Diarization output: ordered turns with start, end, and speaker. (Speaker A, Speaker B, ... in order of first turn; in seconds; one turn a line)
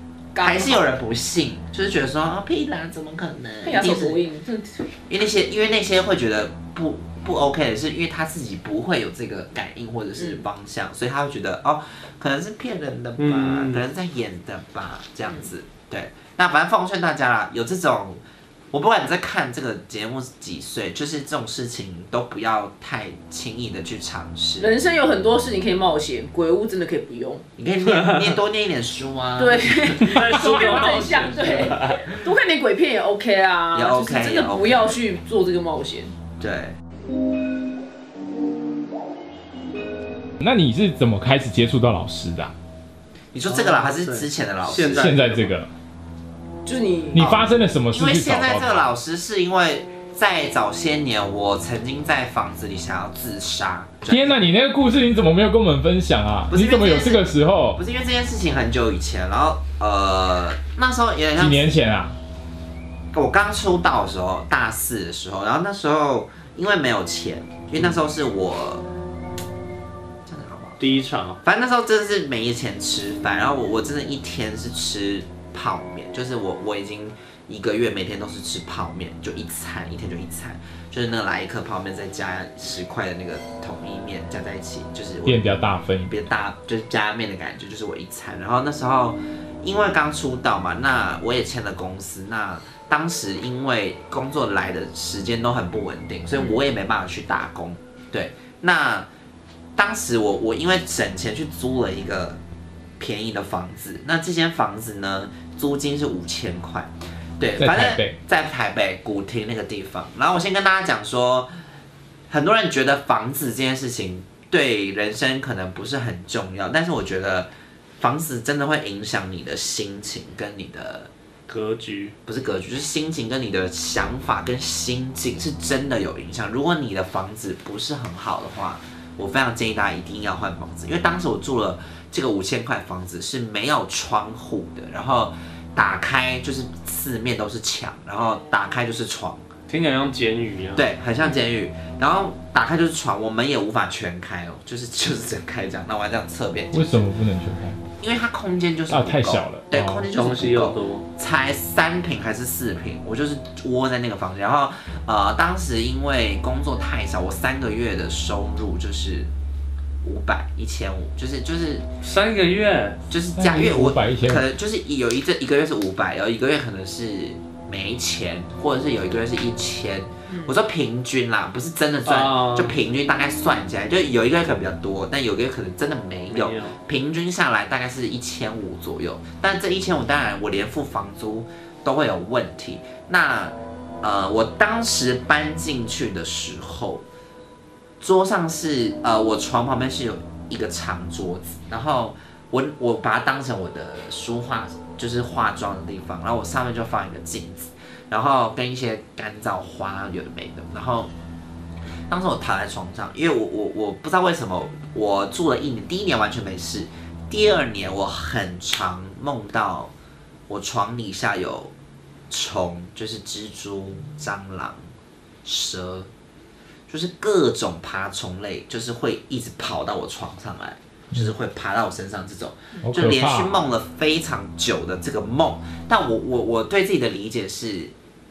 Speaker A: 0.3-0.9
Speaker B: 0.4-4.2
Speaker A: 3.6-4.9
Speaker B: 5.1-18.2
Speaker A: 10.2-10.4
Speaker C: 13.2-13.8
Speaker B: 18.7-24.7
Speaker A: 24.6-27.4
Speaker B: 27.6-30.4
Speaker C: 27.9-28.3
Speaker A: 29.4-36.1
Speaker C: 30.0-31.9
Speaker D: 30.8-31.1
Speaker B: 33.7-34.9
Speaker B: 36.4-36.7
Speaker D: 40.4-42.5
Speaker B: 43.3-45.2
Speaker C: 43.5-45.5
Speaker D: 45.0-45.7
Speaker A: 46.6-47.6
Speaker D: 47.1-48.9
Speaker B: 47.9-54.4
Speaker D: 54.1-57.8
Speaker B: 56.5-61.7
Speaker D: 61.4-62.2
Speaker B: 63.1-68.9
Speaker B: 70.3-70.8
Speaker C: 70.8-71.4
Speaker B: 71.4-85.5
Speaker D: 85.2-86.1
Speaker B: 86.1-99.1
Speaker B: 99.8-102.4
Speaker B: 103.0-111.5
Speaker D: 107.6-108.2
Speaker B: 112.3-121.1
Speaker C: 121.5-122.1
Speaker B: 122.3-139.4
Speaker C: 139.7-140.8
Speaker B: 140.8-147.1
Speaker D: 146.7-147.8
Speaker B: 148.0-159.3
Speaker D: 148.9-150.1
Speaker C: 150.1-151.1
Speaker B: 160.0-161.9
Speaker C: 162.0-163.0
Speaker B: 163.1-187.0
Speaker D: 163.4-164.5
Speaker A: 170.3-170.5
Speaker C: 172.1-172.8
Speaker C: 176.3-176.8
Speaker B: 188.0-201.1
Speaker B: 202.1-209.9
Speaker B: 210.5-211.7
Speaker B: 212.3-214.8
Speaker B: 215.4-216.1
Speaker B: 216.9-227.9
Speaker D: 222.8-223.6